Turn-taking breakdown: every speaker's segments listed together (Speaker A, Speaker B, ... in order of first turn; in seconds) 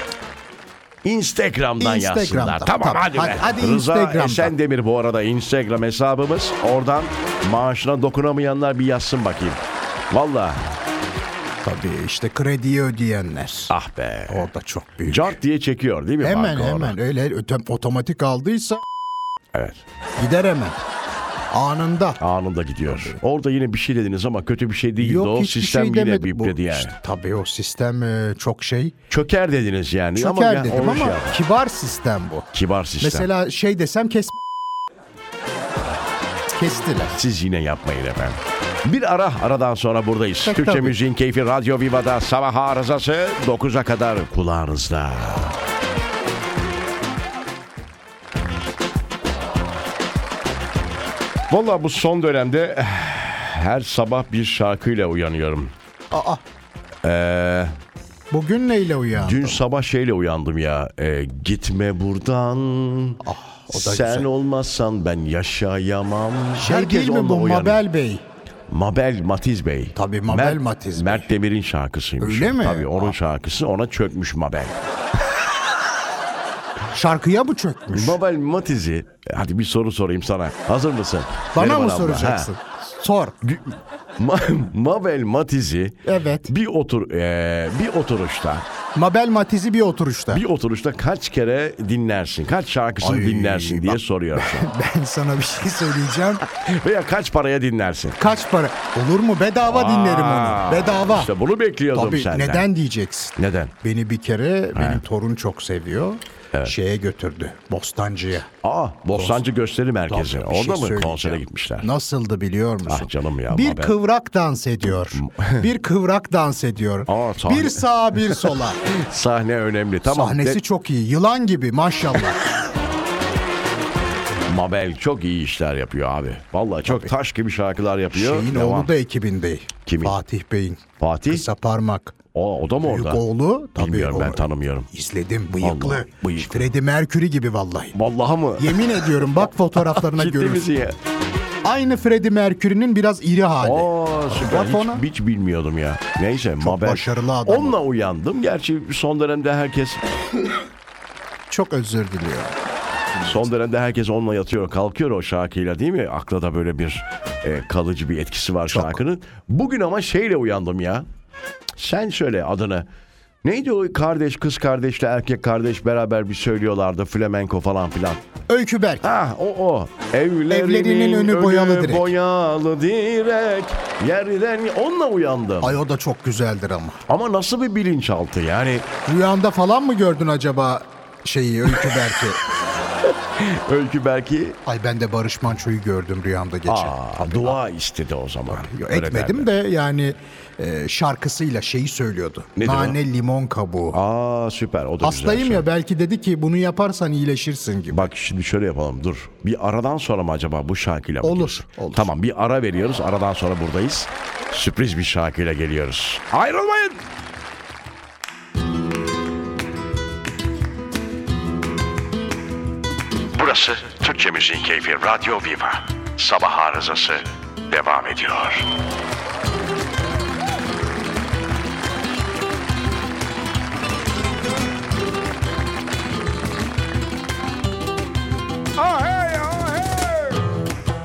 Speaker A: 1.0-10.6, 13.7-14.5, 15.1-17.0, 19.5-19.8, 22.2-26.9, 29.1-31.4, 32.5-33.3, 37.1-45.6, 51.5-55.7, 57.0-57.7, 59.2-67.8, 68.7-74.8, 77.9-82.5, 83.4-88.7, 90.3-94.7, 96.5-98.2, 99.6-102.7, 103.4-103.7, 104.7-105.0, 108.6-111.9, 112.8-114.0, 115.1-115.7, 117.1-120.6, 124.5-128.9, 129.8-130.2, 131.0-131.4, 132.3-133.2, 133.8-134.9, 135.6-136.7, 137.9-141.0, 143.6-150.0, 153.2-161.1, 161.7-162.9, 163.4-168.2, 169.0-175.8, 177.1-178.9, 183.0-184.6, 186.7-189.5, 192.6-193.0, 193.9-195.7, 197.9-207.0, 213.3-218.8, 228.8-230.4
Speaker B: 1.8-4.5, 11.6-13.7, 14.3-15.3, 16.2-18.8, 20.2-20.8, 21.5-22.2, 22.9-23.1, 25.0-28.9, 30.1-34.4, 36.5-37.2, 40.4-41.0, 56.1-56.4, 58.3-59.6, 63.2-64.3, 66.5-68.2, 69.9-71.3, 72.2-73.1, 76.9-78.2, 81.5-83.4, 86.0-86.5, 88.9-90.4, 93.0-96.4, 98.2-101.3, 101.9-108.5, 109.1-109.5, 110.1-118.8, 120.0-122.4, 128.1-132.2, 132.8-137.9, 138.6-140.7, 141.6-145.0, 146.6-147.8, 151.5-152.5, 153.1-153.5, 158.7-159.0, 168.5-169.1, 170.5-172.1, 175.6-177.0, 179.1-182.4, 184.7-187.6, 188.5-194.0, 195.0-198.1, 201.2-202.1